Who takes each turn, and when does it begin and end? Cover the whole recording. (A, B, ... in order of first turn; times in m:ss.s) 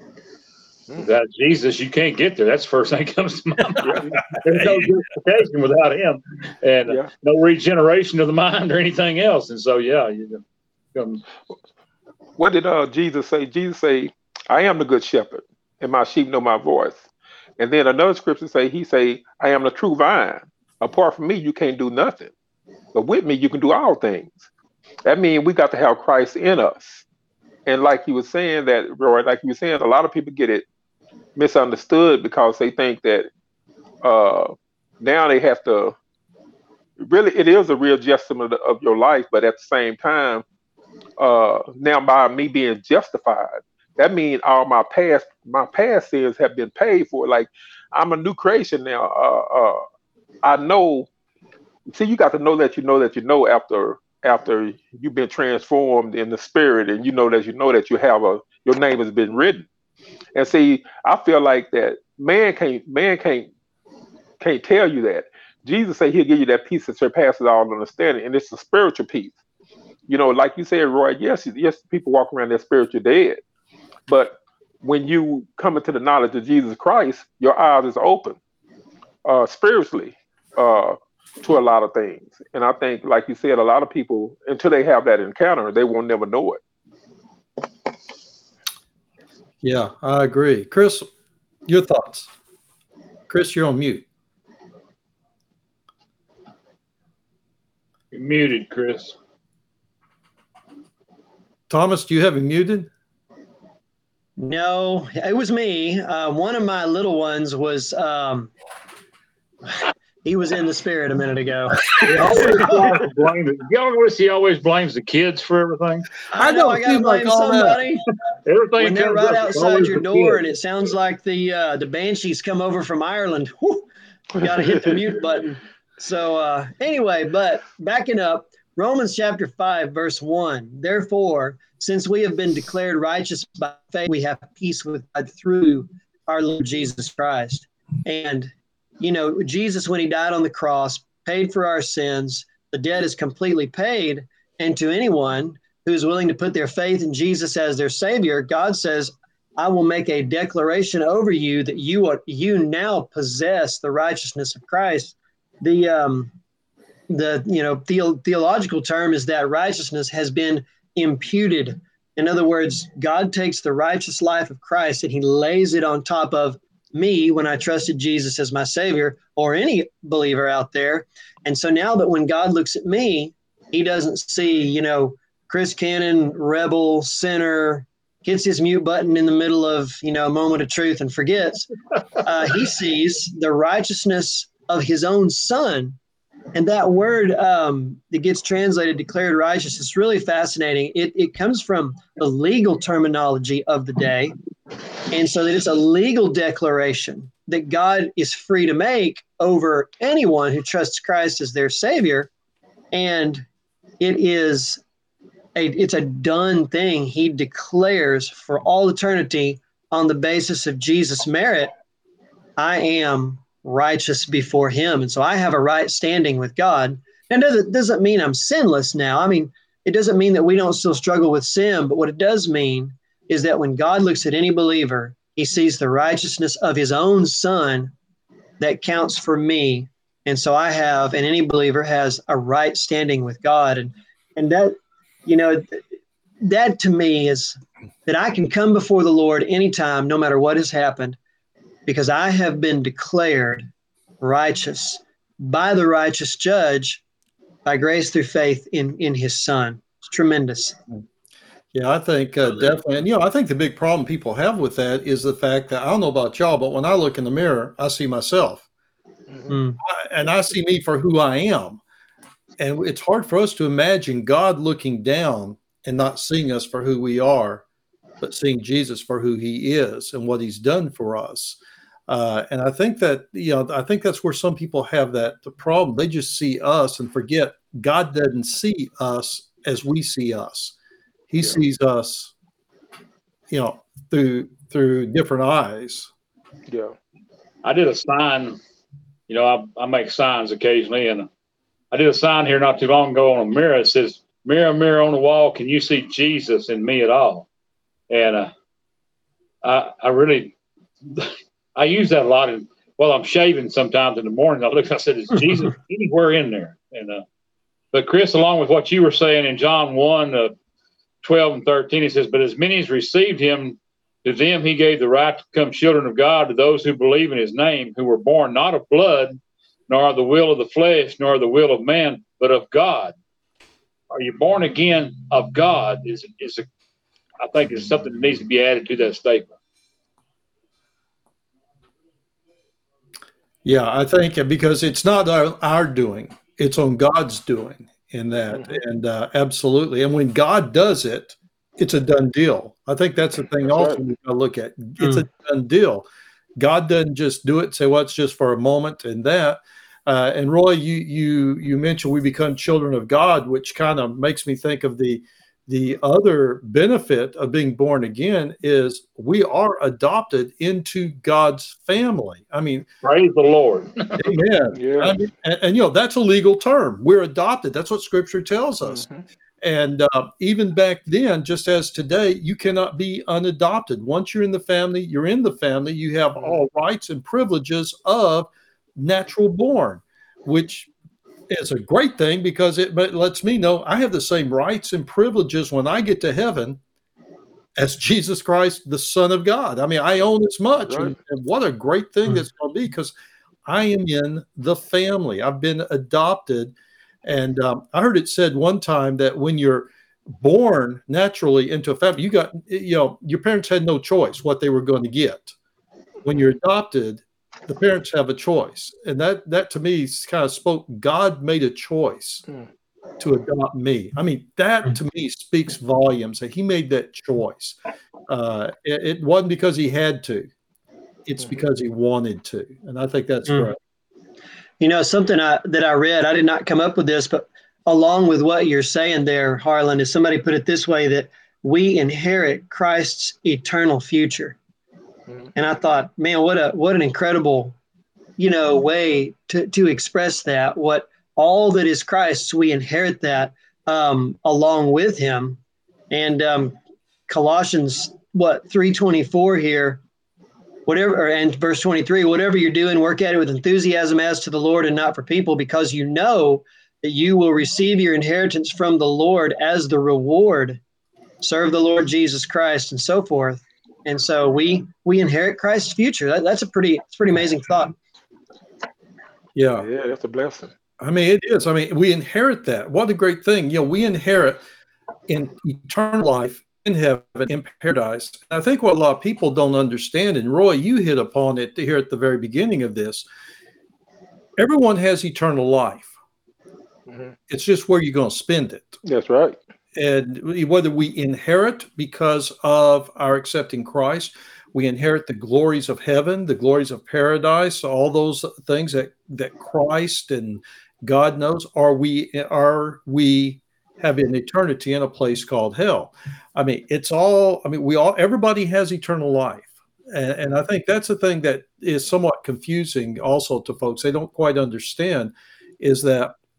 0:01.0-0:10.4 A
0:03.8-0:04.1 B
0:10.9-0:11.2 A
0:12.4-0:17.0 B
0:17.6-0:22.3 B
0:22.9-0:24.5 B
0:25.0-0:27.0 B
0:27.7-0:30.6 B
0:31.4-0:33.3 B
0:34.0-0:35.9 B
0:37.0-0:40.4 B
0:41.2-0:49.8 B
0:50.4-0:51.1 B
0:51.9-0:59.7 B
1:00.3-1:03.5 B
1:04.4-1:09.3 B
1:10.1-1:13.4 B
1:14.1-1:18.4 B
1:19.2-1:26.6 B
1:29.6-1:31.1 C
1:31.7-1:32.3 C
1:33.3-1:34.0 C
1:38.1-1:39.2 A
1:41.7-1:42.9 C
1:44.4-1:48.5 D
1:50.2-1:52.9 D
1:52.0-1:56.1 A
1:52.0-1:52.8 C
1:56.3-1:58.1 D
1:56.3-1:57.8 C
1:58.4-2:00.4 A
1:58.8-2:36.3 D
2:37.1-3:06.0 D
3:06.5-3:14.4 D
3:15.1-3:22.3 D
3:22.9-3:23.4 D
3:24.0-3:24.8 D
3:25.5-3:31.7 D
3:32.6-3:47.9 D
3:48.6-3:54.7 D
3:55.2-3:55.8 D
3:56.4-4:01.2 D
4:01.8-4:03.7 D
4:04.2-4:07.0 D
4:07.6-4:10.8 D
4:11.7-4:18.6 C
4:19.5-4:19.8 D
4:19.8-4:21.8 C
4:22.6-4:27.6 C
4:28.2-4:31.6 C
4:32.1-4:40.7 C
4:41.3-4:42.3 C
4:43.5-4:46.1 C
4:46.7-4:46.9 B
4:47.6-4:48.6 A
4:49.3-4:51.3 A
4:51.9-4:57.5 A
4:58.1-4:58.5 A
4:59.6-5:00.5 A
5:01.1-5:07.2 A
5:07.9-5:10.5 A
5:11.2-5:23.2 A
5:24.1-5:26.7 A
5:27.4-5:29.5 A
5:33.6-5:46.0 C
5:38.5-5:38.8 B
5:43.6-5:44.0 B
5:46.6-6:02.9 C
6:03.0-6:04.2 A
6:04.2-6:09.1 C
6:04.7-6:05.1 B
6:08.8-6:09.2 B
6:09.6-6:20.9 C
6:21.5-6:26.8 C
6:27.8-6:33.1 C
6:30.9-6:31.1 B
6:33.7-6:36.7 C
6:37.2-6:45.5 C
6:46.2-6:52.4 C
6:53.2-6:57.8 C
6:58.3-7:00.5 C
7:01.2-7:03.8 C
7:04.8-7:14.6 D
7:15.5-7:17.8 D
7:18.4-7:25.6 D
7:26.1-7:26.8 D
7:27.3-7:30.0 D
7:30.9-7:40.8 D
7:41.4-7:48.0 D
7:49.6-7:49.9 C
7:49.8-7:50.7 B
7:51.0-7:54.6 C
7:55.3-8:03.2 C
8:04.6-8:06.1 C
8:07.1-8:07.3 B
8:07.5-8:09.0 C
8:09.0-8:09.6 B
8:10.0-8:36.4 C